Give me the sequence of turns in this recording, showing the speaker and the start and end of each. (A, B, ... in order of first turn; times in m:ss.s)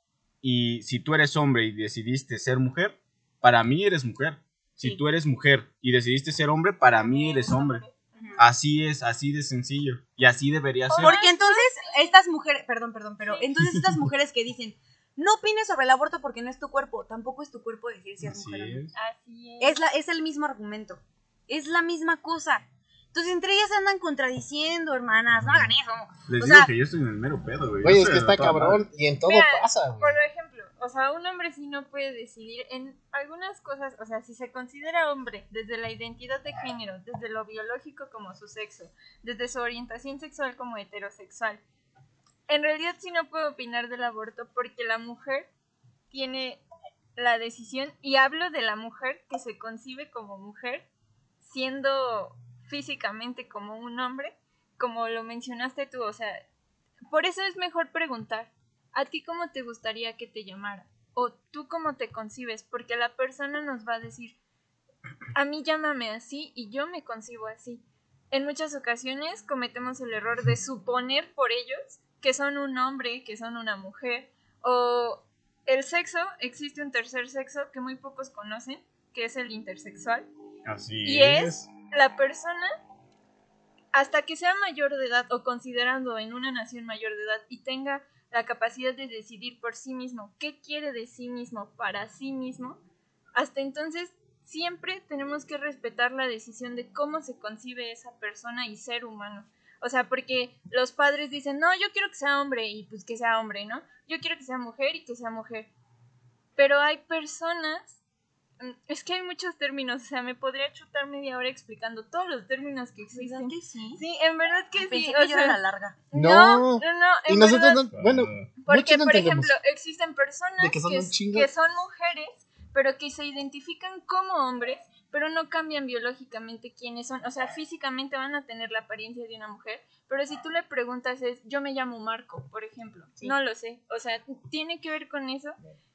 0:00.4-0:07.8 A
0:06.9-0:08.4 B
0:08.4-0:11.2 A
0:10.9-0:12.1 B
0:11.0-0:18.8 C
0:13.2-0:13.5 B
0:18.2-0:18.9 A
0:18.9-0:19.8 B
0:19.6-0:26.7 C
0:26.3-0:28.8 A
0:27.8-0:30.2 D
0:29.2-0:41.6 B
0:42.5-0:45.5 B
0:46.1-0:46.6 B
0:47.2-0:50.9 B
0:51.4-0:56.4 B
0:57.1-1:04.4 B
1:05.3-1:20.2 B
1:20.6-1:21.7 A
1:21.0-1:22.7 B
1:23.9-1:32.8 B
1:33.4-1:45.7 B
1:46.6-1:48.0 B
1:48.6-1:55.6 B
1:53.1-1:54.0 C
1:54.7-1:56.0 C
1:56.1-1:57.8 B
1:56.1-1:59.5 D
1:57.9-1:58.5 A
1:58.6-2:15.6 B
2:00.6-2:01.5 D